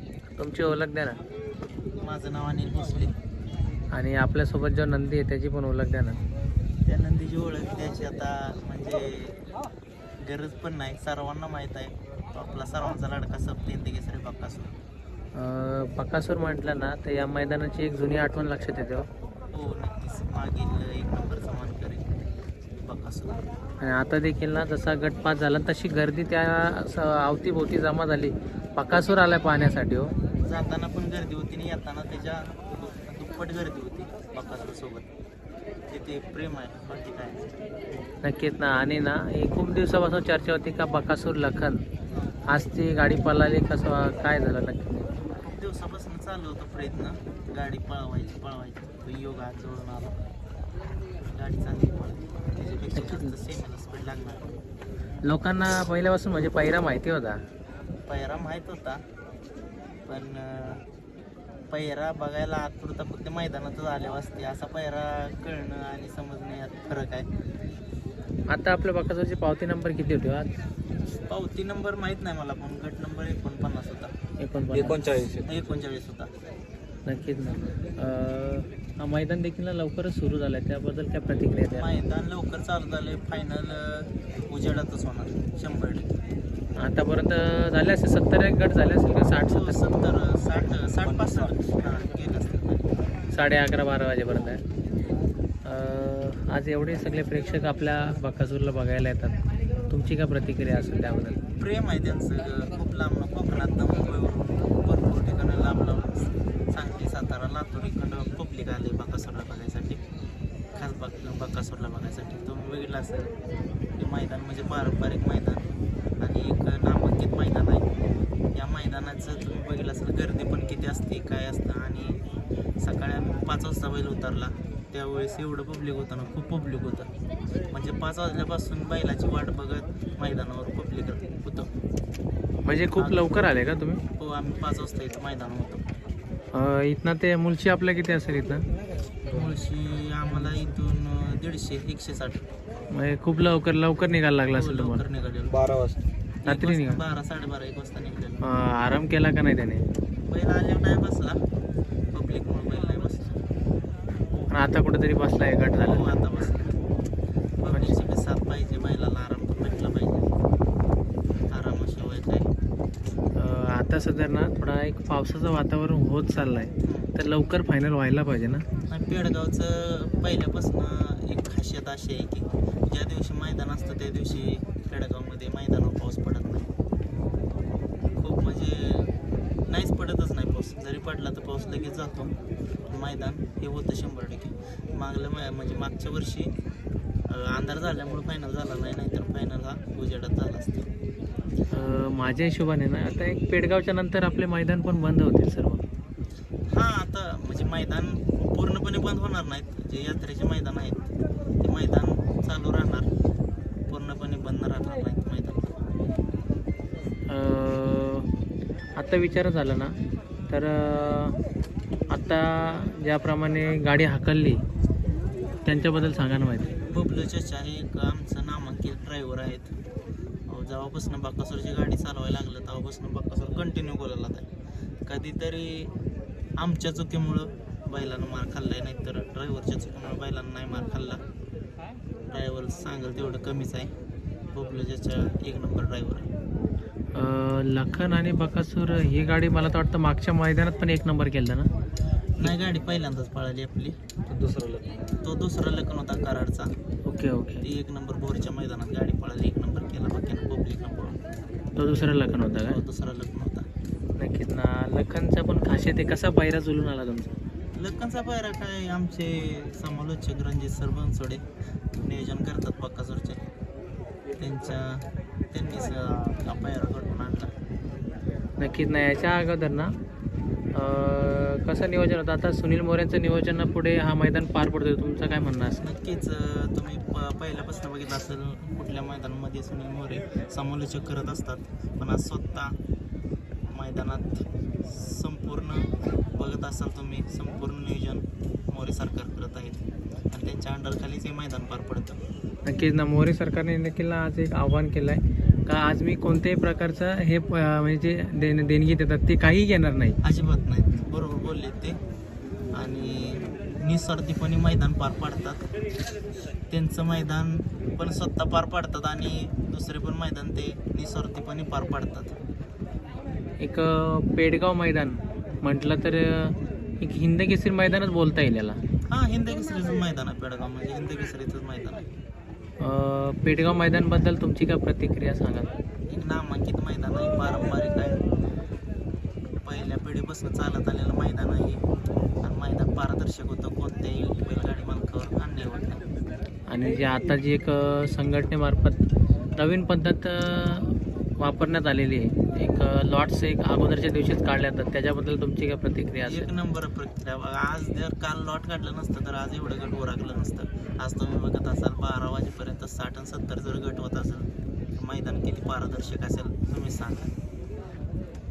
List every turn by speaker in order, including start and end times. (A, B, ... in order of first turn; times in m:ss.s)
0:00.4-0:01.2 A
0:02.0-0:03.1 B
0:03.9-0:06.2 A
0:06.8-0:09.4 B
0:10.2-0:14.7 B
0:15.3-0:19.1 A
0:19.5-0:22.0 B
0:22.8-0:23.4 B
0:23.8-0:30.1 A
0:30.4-0:35.1 B
0:35.9-0:37.5 B
0:38.2-0:41.8 A
0:42.1-0:42.4 B
0:42.5-0:45.1 A
0:45.5-0:50.2 B
0:51.2-0:54.4 B
0:53.0-0:53.3 A
0:55.2-0:57.4 A
0:58.1-0:59.0 B
1:00.1-1:00.8 B
1:01.7-1:07.3 B
1:08.5-1:10.5 A
1:11.3-1:14.1 B
1:14.4-1:15.1 A
1:14.7-1:15.4 C
1:15.4-1:16.3 B
1:17.0-1:21.9 A
1:21.7-1:26.2 B
1:26.8-1:29.8 A
1:29.5-1:32.9 B
1:33.3-1:34.6 A
1:35.6-1:39.3 A
1:39.9-1:41.4 A
1:41.6-1:50.0 B
1:50.7-1:53.3 B
1:54.0-1:55.7 B
1:56.2-1:57.9 B
1:58.5-2:02.2 B
2:02.8-2:07.1 B
2:07.7-2:11.7 B
2:12.6-2:14.0 A
2:13.0-2:15.8 B
2:16.5-2:18.6 A
2:19.3-2:22.4 B
2:22.9-2:25.0 A
2:24.5-2:25.6 B
2:25.6-2:26.0 C
2:26.4-2:27.0 A
2:26.4-2:28.5 B
2:28.4-2:29.8 A
2:30.3-2:31.4 B
2:32.1-2:33.4 B
2:34.5-2:36.2 A
2:35.8-2:36.8 B
2:37.6-2:40.3 B
2:37.7-2:38.0 A
2:41.5-2:42.5 B
2:43.4-2:48.6 A
2:46.8-2:47.1 B
2:48.9-2:56.7 B
2:58.2-2:59.1 B
2:59.7-3:02.4 B
3:02.9-3:06.5 B
3:07.3-3:10.9 B
3:11.7-3:15.8 A
3:16.7-3:21.0 B
3:21.6-3:23.1 B
3:23.9-3:25.7 B
3:27.3-3:28.3 A
3:29.0-3:30.0 A
3:30.5-3:31.4 A
3:32.1-3:34.6 A
3:35.6-3:36.7 A
3:36.9-3:39.7 B
3:40.5-3:44.5 B
3:45.0-3:45.9 B
3:46.6-3:51.2 B
3:52.3-3:53.9 B
3:54.5-3:56.3 B
3:57.1-4:01.7 A
4:02.4-4:04.0 B
4:04.3-4:05.0 C
4:05.2-4:06.7 B
4:07.1-4:07.6 A
4:07.6-4:11.2 B
4:11.8-4:12.8 A
4:12.5-4:13.6 B
4:14.2-4:17.3 A
4:17.8-4:21.4 B
4:22.0-4:23.4 B
4:24.4-4:27.5 B
4:28.6-4:29.9 A
4:30.7-4:35.8 A
4:35.8-4:42.8 B
4:43.7-4:52.2 B
4:52.6-5:00.2 A
5:00.2-5:02.0 B
5:02.7-5:05.6 B
5:06.7-5:12.3 B
5:13.6-5:18.8 A
5:19.1-5:22.0 B
5:22.8-5:25.7 A
5:26.1-5:28.2 B
5:29.6-5:31.8 B
5:32.4-5:36.0 B
5:36.7-5:39.0 A
5:39.6-5:46.5 A
5:46.2-5:57.3 B